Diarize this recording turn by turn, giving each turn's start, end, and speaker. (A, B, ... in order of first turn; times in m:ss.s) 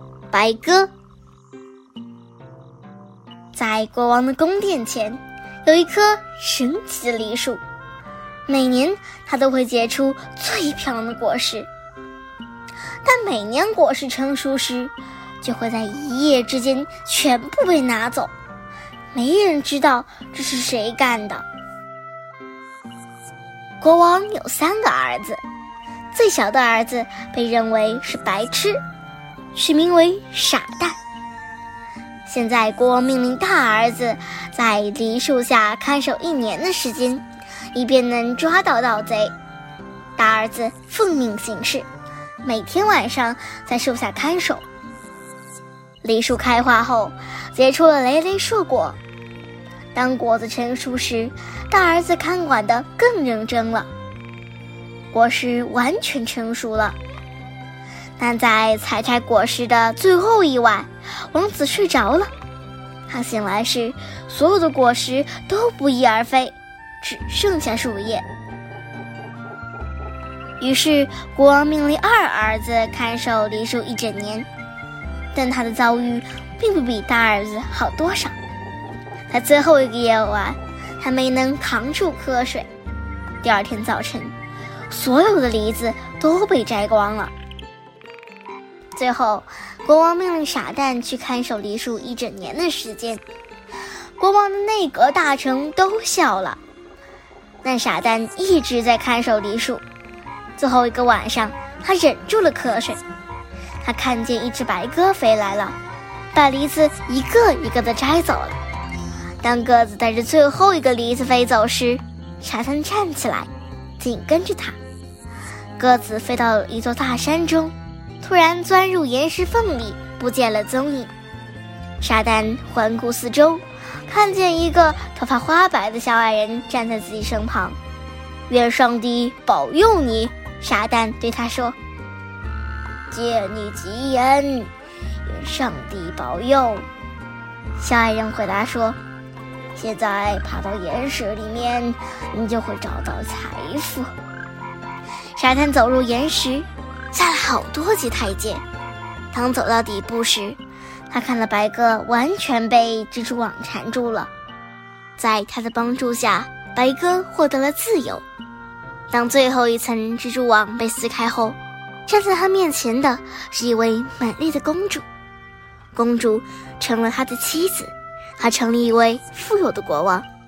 0:00.3-0:00.9 A
0:03.5-0:07.6 A
0:08.5-0:11.7 A
0:13.0-0:18.3 A
0:19.1-0:21.4 A
0:23.8-0:25.4 A
0:26.1-0:28.8 A
0:29.5-0:31.0 A
0:32.3-0:39.3 A
0:40.2-0:41.8 A
0:42.4-0:44.6 A
0:46.0-0:49.0 A
0:49.9-0:53.9 A
0:55.1-0:57.0 A
0:58.2-1:02.3 A
1:03.1-1:08.2 A
1:10.6-1:14.5 A
1:15.3-1:18.4 A
1:19.3-1:22.7 A
1:23.4-1:24.3 A
1:24.9-1:27.3 A
1:28.9-1:33.2 A
1:34.2-1:36.6 A
1:37.6-1:39.8 A
1:40.6-1:43.0 A
1:43.8-1:45.8 A
1:46.3-1:48.6 A
1:49.4-1:54.8 A
1:55.8-2:01.1 A
2:02.0-2:07.8 A
2:08.5-2:11.8 A
2:13.1-2:14.7 A
2:15.2-2:16.8 A
2:17.8-2:19.0 A
2:19.7-2:24.1 A
2:25.4-2:28.6 A
2:29.3-2:30.6 A
2:31.1-2:34.3 A
2:35.2-2:38.2 A
2:39.1-2:45.0 A
2:45.9-2:50.2 A